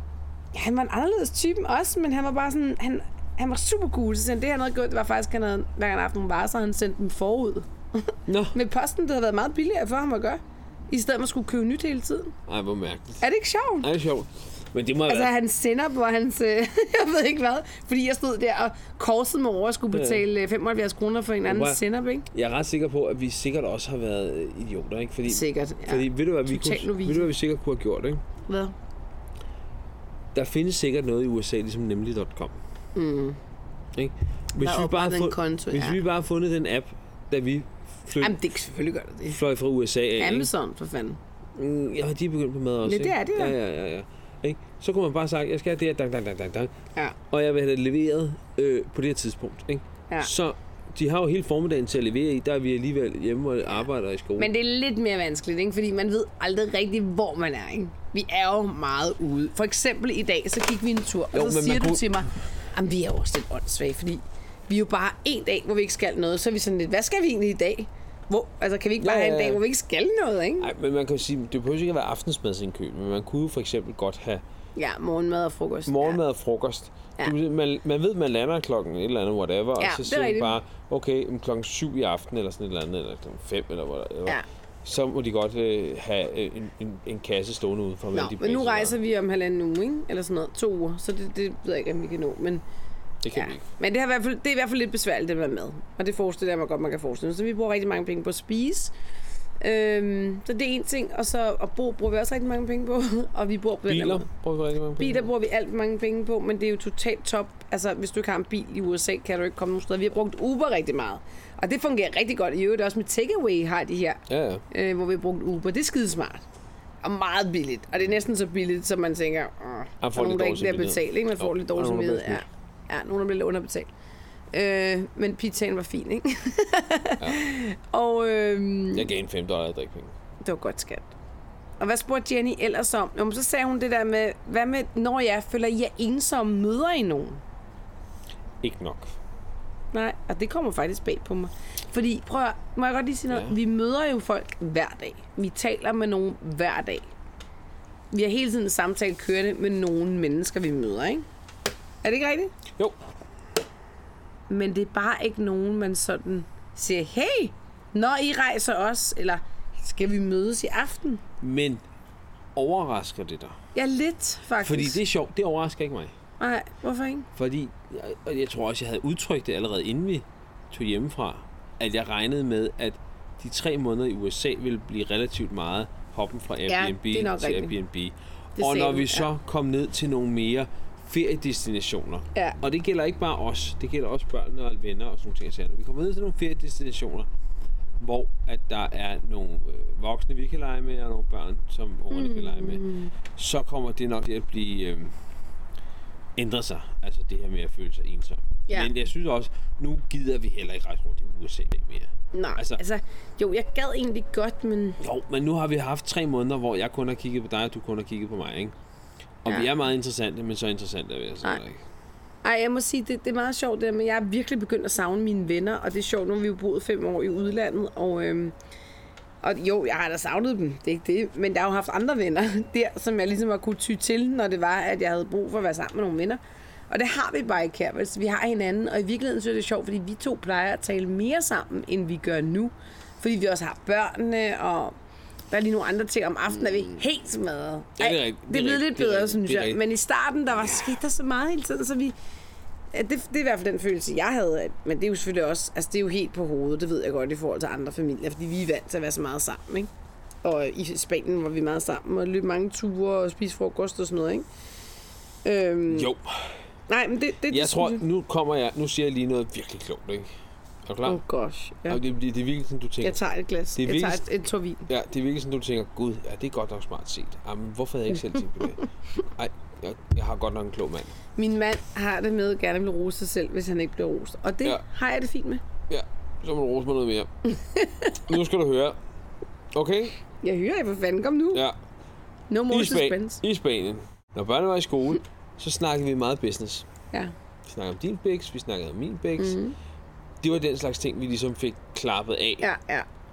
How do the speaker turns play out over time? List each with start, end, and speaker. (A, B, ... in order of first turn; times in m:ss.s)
0:00.5-0:12.4 A
0:08.3-0:08.6 B
0:12.5-0:13.2 B
0:13.2-0:13.9 A
0:13.8-0:15.3 B
0:15.1-0:22.3 A
0:19.9-0:20.3 B
0:21.5-0:28.2 B
0:25.3-0:27.3 A
0:28.5-0:28.7 A
0:30.3-0:32.6 B
0:33.0-0:33.4 A
0:33.9-0:38.4 B
0:34.6-0:36.0 A
0:38.2-0:39.4 A
0:39.3-0:40.5 B
0:40.2-0:41.2 A
0:41.6-0:46.7 B
0:42.8-0:43.6 A
0:47.3-0:54.5 B
0:54.4-1:10.7 A
1:01.3-1:02.2 B
1:09.0-1:09.6 B
1:10.6-1:14.4 B
1:14.8-1:16.2 A
1:15.9-1:29.0 B
1:19.8-1:20.6 A
1:28.1-1:32.6 A
1:33.2-1:33.6 B
1:33.3-1:38.9 A
1:39.6-1:44.3 A
1:43.9-1:45.3 B
1:45.0-1:56.4 A
1:54.3-1:54.6 B
1:57.0-2:03.9 A
2:00.0-2:02.4 B
2:04.5-2:09.1 A
2:07.2-2:07.5 B
2:08.9-2:10.1 B
2:10.4-2:11.1 A
2:11.8-2:17.4 A
2:18.6-2:19.2 B
2:19.9-2:27.1 A
2:23.3-2:23.6 B
2:28.1-2:31.2 A
2:32.0-2:32.5 A
2:34.5-2:41.2 A
2:41.4-2:41.8 B
2:42.6-2:43.6 B
2:43.8-2:45.0 A
2:44.6-2:46.1 B
2:46.4-2:47.3 A
2:47.4-3:07.3 B
2:56.7-2:57.8 A
2:58.6-2:59.3 A
3:08.0-3:15.1 B
3:12.1-3:13.1 A
3:16.4-3:22.8 B
3:22.3-3:25.0 A
3:25.0-3:28.8 B
3:29.4-3:31.8 B
3:29.5-3:29.7 A
3:32.4-3:38.5 A
3:39.4-3:55.0 A
3:55.5-4:02.2 A
3:58.0-3:59.8 B
4:00.6-4:01.0 B
4:02.9-4:09.9 A
4:10.4-4:14.5 A
4:15.4-4:16.1 A
4:15.9-4:16.5 B
4:16.9-4:18.0 A
4:17.5-4:20.3 B
4:20.9-4:21.2 B
4:21.0-4:22.0 A
4:21.9-4:23.2 B
4:23.0-4:24.9 A
4:23.8-4:24.2 B
4:24.9-4:31.2 B
4:31.4-4:35.6 A
4:35.9-4:37.3 B
4:37.5-4:38.3 A
4:38.2-4:39.0 B
4:39.7-4:40.2 B
4:40.4-4:41.6 A
4:42.5-4:43.4 A
4:42.7-4:46.9 B
4:47.6-4:49.6 B
4:49.4-4:49.8 A
4:50.4-4:52.7 B
4:52.6-4:53.1 A